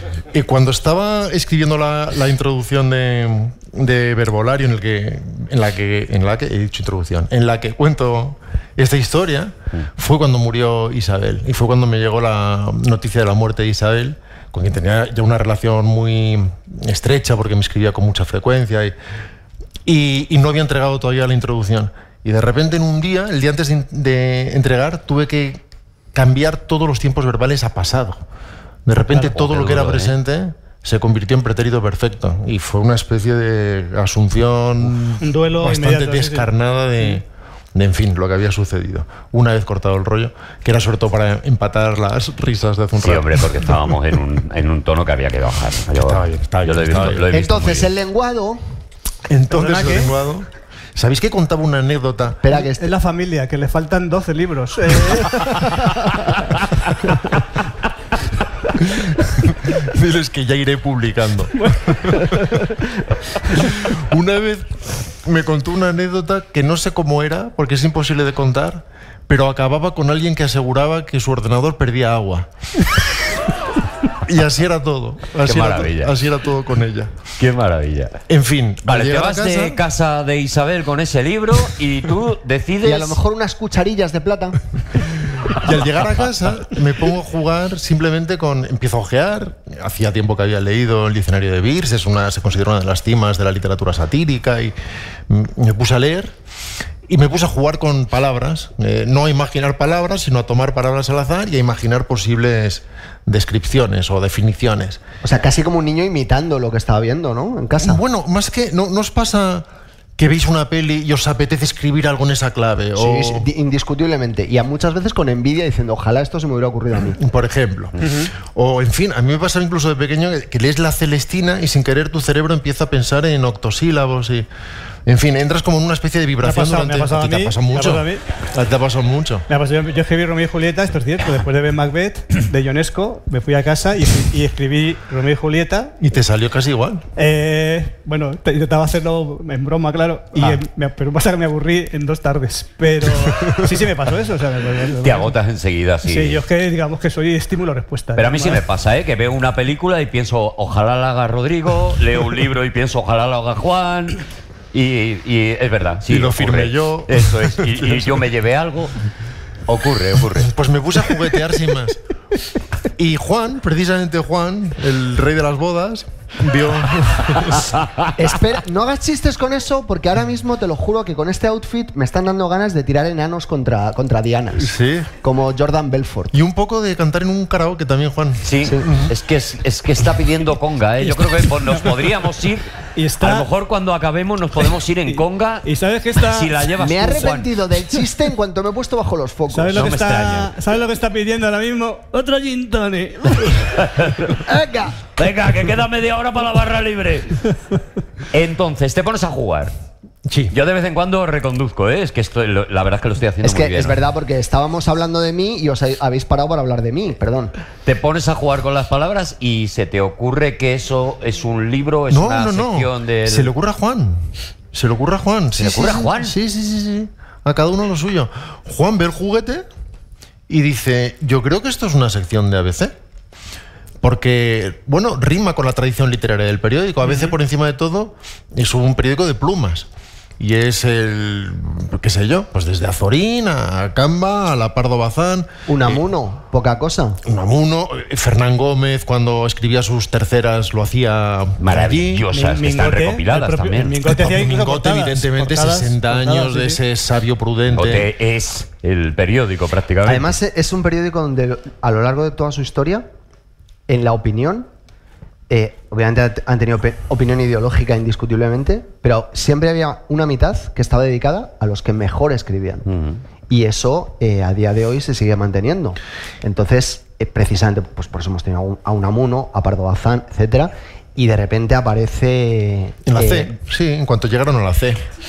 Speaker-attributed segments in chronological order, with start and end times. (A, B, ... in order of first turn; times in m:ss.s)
0:00.3-0:19.0 A
0:19.8-0:25.6 A
0:26.1-0:28.2 A
0:28.9-0:43.8 A
0:29.1-0:29.3 B
0:29.4-0:30.1 C
0:35.2-0:36.5 B
0:43.0-0:47.9 C
0:46.0-0:47.3 A
0:47.3-0:48.6 D
0:49.3-0:52.4 A
0:49.5-0:50.1 B
0:52.4-0:52.9 D
0:52.6-0:56.2 B
0:58.8-1:02.6 A
1:01.6-1:02.8 B
1:03.5-1:12.5 A
1:14.2-1:17.1 A
1:15.4-1:16.2 C
1:17.4-1:18.2 C
1:18.3-1:19.8 A
1:18.8-1:23.2 C
1:22.8-1:24.6 D
1:25.5-1:34.8 A
1:35.3-1:36.4 A
1:37.1-1:45.0 A
1:45.2-1:48.0 D
1:47.8-1:53.5 A
1:53.0-1:57.2 D
1:57.1-2:04.5 A
1:58.0-1:58.3 B
2:05.1-2:09.5 A
2:06.4-2:08.2 B
2:09.5-2:16.0 B
2:16.0-2:17.0 A
2:17.2-2:25.3 B
2:23.2-2:23.6 A
2:25.0-2:26.4 C
2:26.0-2:28.6 B
2:28.2-2:34.2 C
2:34.7-2:39.0 C
2:36.1-2:38.2 A
2:39.7-2:40.5 C
2:40.4-2:42.0 A
2:43.0-2:47.8 A
2:48.2-2:56.3 D
2:54.6-2:55.1 A
2:56.3-2:59.1 A
2:58.4-3:02.7 C
3:01.0-3:02.1 B
3:03.0-3:03.5 B
3:03.2-3:05.6 C
3:05.1-3:07.3 B
3:06.2-3:07.5 C
3:06.8-3:09.9 D
3:09.5-3:13.7 B
3:09.8-3:10.5 C
3:13.8-3:14.2 C
3:14.4-3:15.0 D
3:15.2-3:17.4 C
3:18.3-3:19.7 C
3:20.3-3:20.5 A
3:20.5-3:24.0 C
3:23.4-3:27.5 D
3:27.8-3:33.5 C
3:32.1-3:39.7 A
3:35.6-3:36.4 C
3:40.5-3:42.9 A
3:44.0-3:49.9 A
3:50.4-3:56.0 A
3:55.7-3:57.2 D
3:57.2-4:02.3 A
4:01.6-4:04.0 C
4:02.3-4:06.8 B
4:04.0-4:08.1 A
4:07.7-4:10.3 C
4:10.0-4:13.1 D
4:13.9-4:14.7 D
4:15.5-4:22.8 D
4:22.9-4:23.2 C
4:23.5-4:33.5 D
4:33.1-4:35.0 A